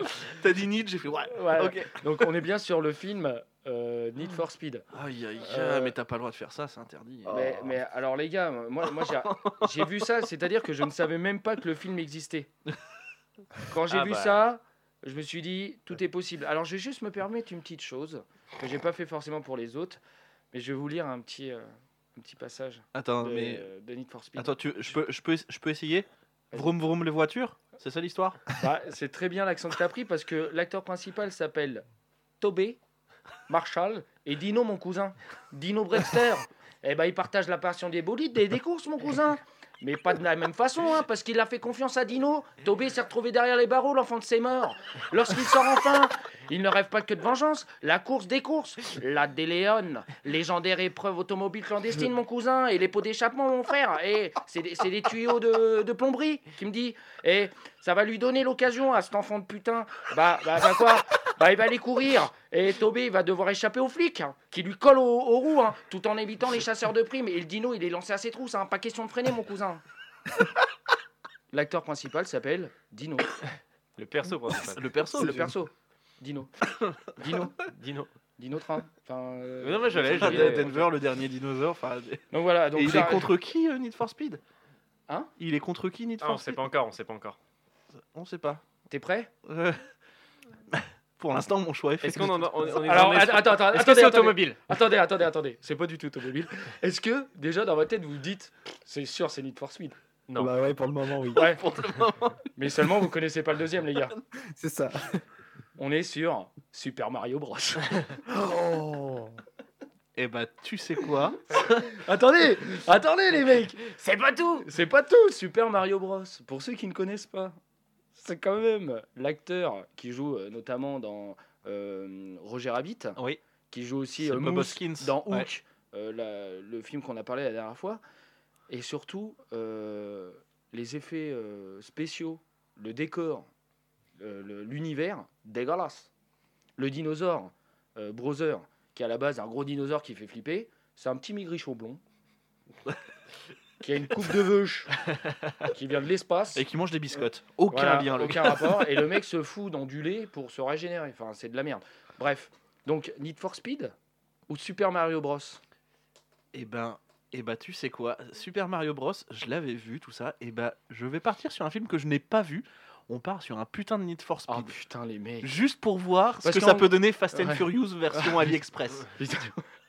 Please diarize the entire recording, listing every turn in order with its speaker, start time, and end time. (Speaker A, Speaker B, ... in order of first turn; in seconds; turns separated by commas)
Speaker A: 0.3-2.1, Speaker B: 1.3-4.9, Speaker A: 4.9-7.8, Speaker B: 5.4-5.9, Speaker B: 7.2-12.5, Speaker A: 8.9-10.0, Speaker B: 13.7-20.0, Speaker C: 13.9-14.4, Speaker B: 20.5-24.6, Speaker A: 22.9-23.7, Speaker A: 24.4-28.4, Speaker B: 28.6-31.9, Speaker B: 32.4-32.8, Speaker B: 33.5-69.8, Speaker B: 71.5-73.3, Speaker C: 74.0-74.9, Speaker A: 74.7-75.5, Speaker B: 75.1-76.5, Speaker B: 77.1-77.6, Speaker C: 77.7-78.1, Speaker B: 78.4-80.8, Speaker C: 79.6-80.8, Speaker A: 80.0-84.4, Speaker B: 82.3-83.3, Speaker A: 85.4-86.6, Speaker C: 86.2-87.4, Speaker A: 88.1-88.6, Speaker B: 88.9-89.3, Speaker A: 89.5-89.8, Speaker A: 90.7-92.9, Speaker C: 92.0-94.6, Speaker B: 92.7-100.0, Speaker C: 100.3-100.5, Speaker D: 100.4-101.4, Speaker B: 101.3-101.6, Speaker A: 101.4-102.4, Speaker B: 102.6-104.1, Speaker D: 104.5-105.2, Speaker B: 105.8-108.0, Speaker D: 108.3-109.4, Speaker A: 110.2-112.0, Speaker B: 111.9-117.6, Speaker C: 114.0-114.6, Speaker B: 118.1-123.2, Speaker B: 123.7-128.0, Speaker A: 124.2-125.5, Speaker B: 128.7-133.5, Speaker B: 134.2-136.1, Speaker B: 136.8-142.0, Speaker B: 143.8-144.9, Speaker B: 145.7-146.6, Speaker A: 146.6-148.9, Speaker B: 147.7-153.9, Speaker B: 154.5-155.6, Speaker A: 156.5-164.7, Speaker B: 164.5-165.5, Speaker A: 165.4-169.2, Speaker B: 166.4-168.5, Speaker B: 169.2-169.6